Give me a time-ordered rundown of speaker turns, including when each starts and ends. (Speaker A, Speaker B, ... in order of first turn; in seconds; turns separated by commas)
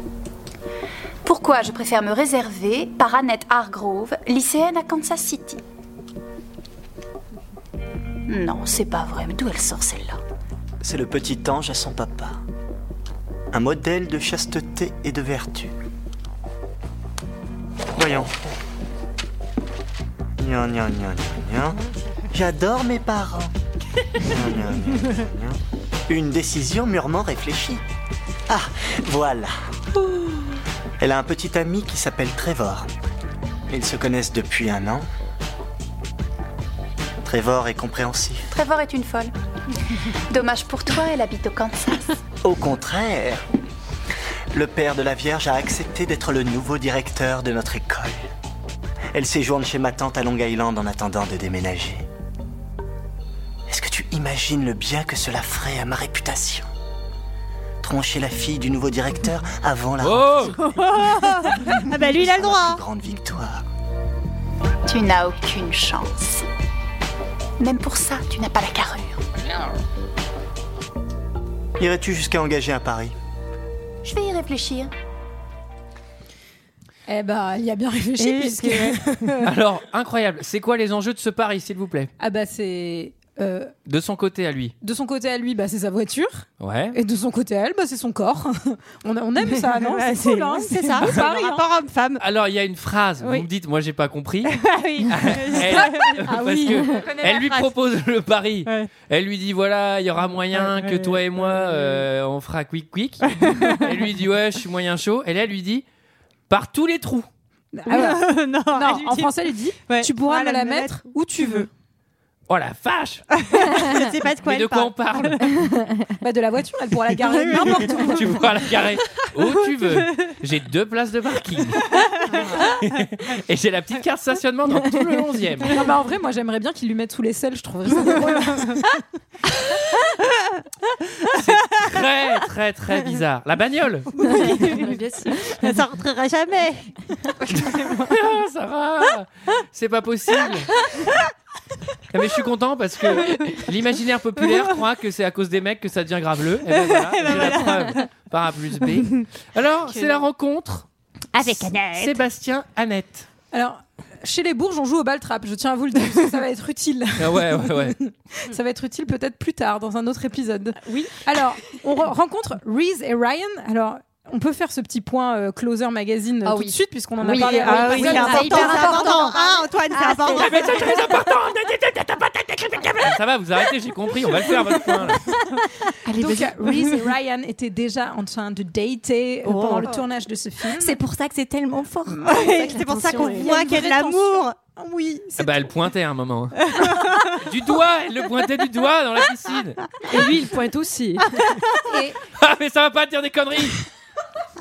Speaker A: 1.2-5.6, Speaker A: 8.3-10.2, Speaker B: 10.8-12.4, Speaker B: 13.5-15.7, Speaker B: 17.9-18.4, Speaker B: 20.4-21.8, Speaker B: 22.3-23.5, Speaker B: 24.2-27.8, Speaker B: 28.5-29.5, Speaker B: 31.0-32.9, Speaker B: 33.7-35.1, Speaker B: 37.2-38.5, Speaker A: 38.5-39.3, Speaker A: 40.3-42.1, Speaker B: 42.4-43.4, Speaker B: 44.5-48.2, Speaker B: 49.1-52.0, Speaker B: 53.7-56.7, Speaker B: 57.8-60.8, Speaker C: 60.0-60.6, Speaker D: 60.7-62.8, Speaker B: 61.6-63.6, Speaker A: 64.9-66.4, Speaker A: 67.6-69.2, Speaker B: 71.8-73.1, Speaker A: 74.0-74.9, Speaker E: 77.1-79.5, Speaker D: 78.2-79.3, Speaker C: 79.4-82.1, Speaker E: 82.2-83.7, Speaker C: 83.9-84.7, Speaker E: 84.8-91.7, Speaker C: 86.6-87.0, Speaker D: 89.5-92.2, Speaker C: 92.2-105.8, Speaker D: 93.2-93.5, Speaker D: 94.5-97.8, Speaker D: 100.5-102.0, Speaker D: 103.3-103.9, Speaker C: 106.5-107.3, Speaker E: 107.7-111.7, Speaker D: 107.9-111.7, Speaker C: 112.5-113.3, Speaker D: 113.4-115.5, Speaker C: 114.4-115.4, Speaker E: 116.2-118.6, Speaker D: 117.2-118.2, Speaker C: 118.1-122.0, Speaker C: 122.6-125.8, Speaker E: 125.7-128.9, Speaker C: 131.3-134.2, Speaker D: 134.2-136.9, Speaker F: 134.7-135.3, Speaker C: 137.5-140.7, Speaker C: 142.1-150.8, Speaker D: 146.7-148.1, Speaker F: 149.9-150.2, Speaker D: 151.3-152.2, Speaker C: 151.4-153.3, Speaker E: 153.5-169.2, Speaker C: 157.2-158.0, Speaker G: 166.4-170.7, Speaker D: 167.2-170.8, Speaker C: 170.3-175.2, Speaker F: 176.1-177.0, Speaker E: 176.2-181.0, Speaker D: 179.4-180.0, Speaker G: 180.8-183.8, Speaker D: 182.2-184.6, Speaker E: 182.6-185.5, Speaker C: 185.4-186.6, Speaker D: 186.8-187.4, Speaker C: 187.4-189.8, Speaker F: 190.1-191.4, Speaker D: 191.5-191.8, Speaker E: 191.9-192.2, Speaker C: 192.3-193.8